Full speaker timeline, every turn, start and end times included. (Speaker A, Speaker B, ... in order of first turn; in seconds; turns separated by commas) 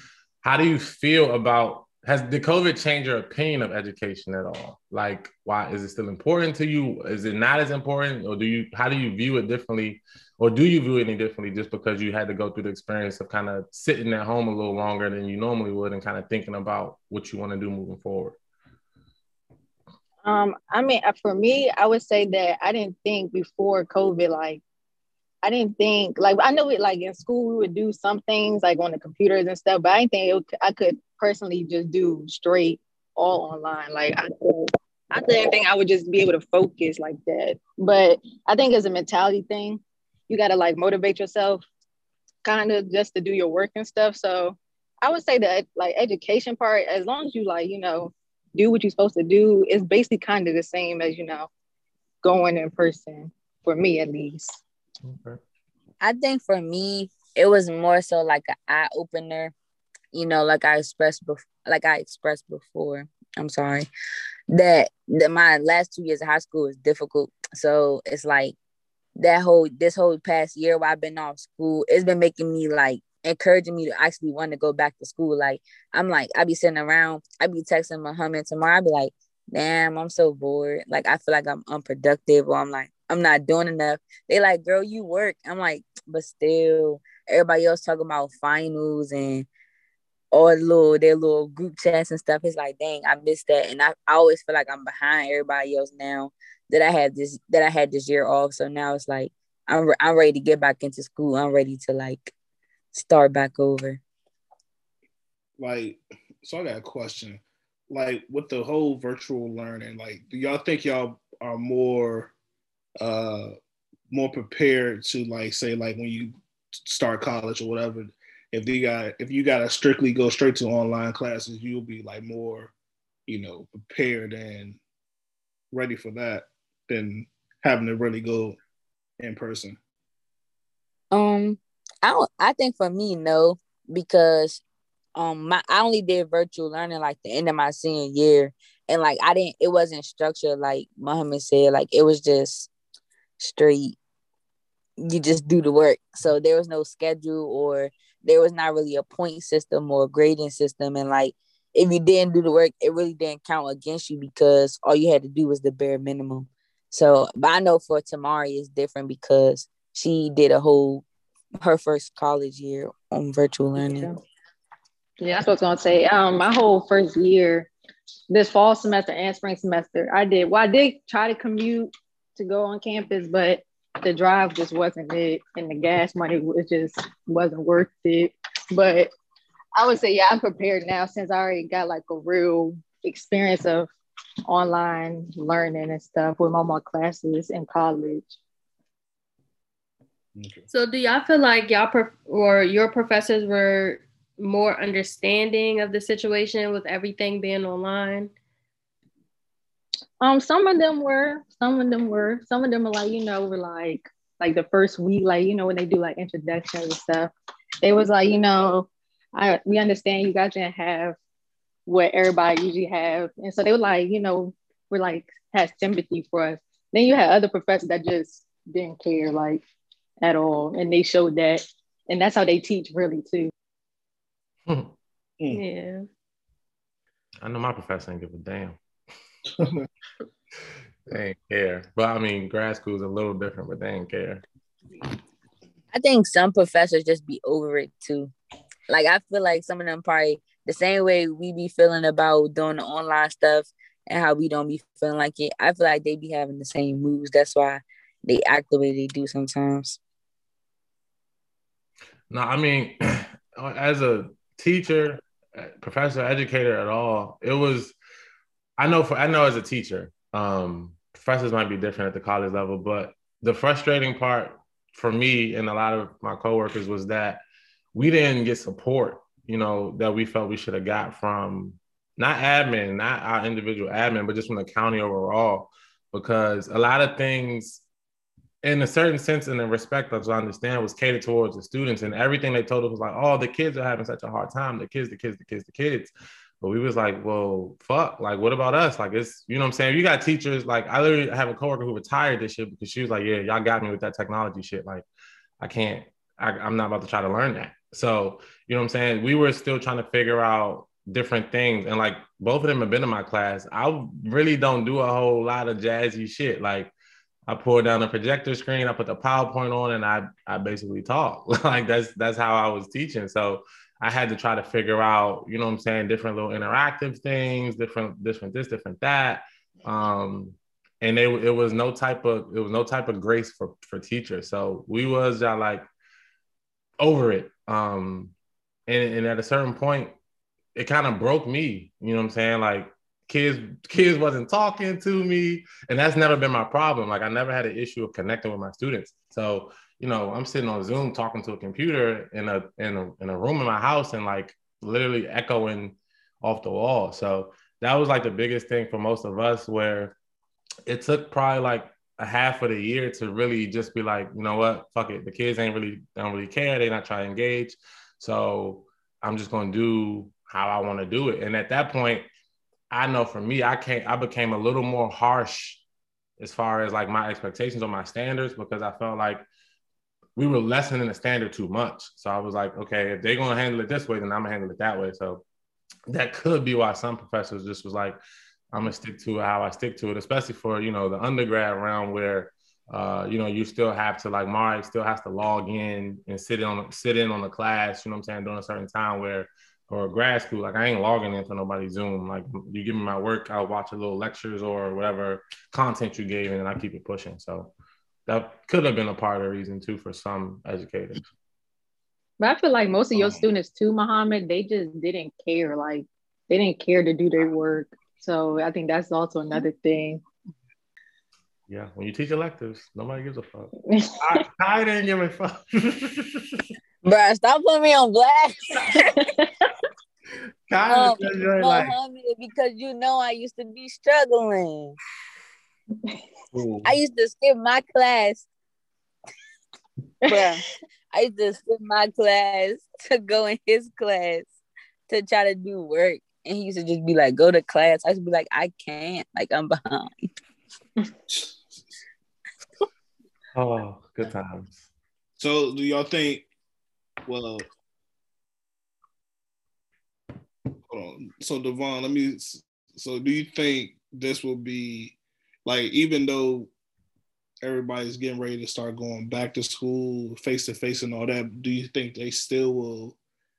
Speaker A: 0.4-18.4, Speaker B: 20.2-24.6, Speaker B: 25.4-41.6, Speaker B: 42.5-51.5, Speaker B: 52.2-54.6, Speaker A: 55.0-55.4, Speaker C: 56.0-59.5, Speaker C: 60.1-63.9, Speaker C: 64.5-68.6, Speaker C: 69.2-89.5, Speaker C: 90.3-102.3, Speaker C: 102.9-104.0, Speaker D: 105.6-112.3, Speaker D: 113.0-113.5, Speaker D: 114.1-122.7, Speaker D: 123.3-124.8, Speaker D: 125.7-128.6, Speaker D: 129.2-129.8, Speaker C: 131.1-134.6, Speaker C: 135.2-142.7, Speaker C: 143.4-144.0, Speaker C: 145.0-161.1, Speaker C: 161.6-164.1, Speaker B: 163.8-164.2, Speaker B: 165.2-167.7, Speaker B: 168.3-179.1, Speaker B: 179.8-183.9, Speaker B: 184.5-188.4, Speaker D: 190.3-190.7, Speaker E: 190.7-198.3, Speaker B: 200.2-207.3, Speaker B: 207.8-211.2, Speaker B: 211.9-219.6, Speaker B: 220.2-223.5, Speaker A: 224.7-224.9, Speaker E: 225.5-226.1, Speaker A: 227.4-228.8, Speaker D: 229.6-229.8, Speaker A: 231.1-234.4, Speaker C: 235.9-238.3, Speaker C: 238.9-250.0, Speaker A: 252.3-257.9, Speaker A: 258.8-267.4, Speaker A: 267.9-277.8, Speaker A: 278.6-286.1, Speaker A: 286.6-295.1, Speaker A: 295.6-306.9, Speaker A: 307.5-325.9, Speaker A: 327.0-328.3, Speaker A: 328.9-330.2, Speaker A: 330.8-350.2, Speaker A: 350.9-362.2, Speaker A: 362.9-365.8, Speaker A: 366.4-369.4, Speaker A: 370.4-375.4, Speaker A: 376.1-378.2, Speaker A: 378.7-397.7, Speaker A: 398.3-401.2, Speaker B: 402.4-410.2, Speaker D: 403.2-403.4, Speaker A: 411.7-416.6, Speaker B: 413.9-414.4, Speaker C: 417.1-419.0, Speaker B: 419.1-419.5, Speaker A: 420.7-421.9, Speaker C: 420.9-425.0, Speaker A: 426.5-426.9, Speaker C: 426.8-428.5, Speaker B: 430.2-430.6, Speaker C: 430.3-434.5, Speaker C: 435.1-440.1, Speaker D: 441.3-441.8, Speaker A: 443.5-444.8, Speaker D: 445.4-446.5, Speaker D: 447.3-447.7, Speaker D: 450.9-456.7, Speaker D: 457.6-463.2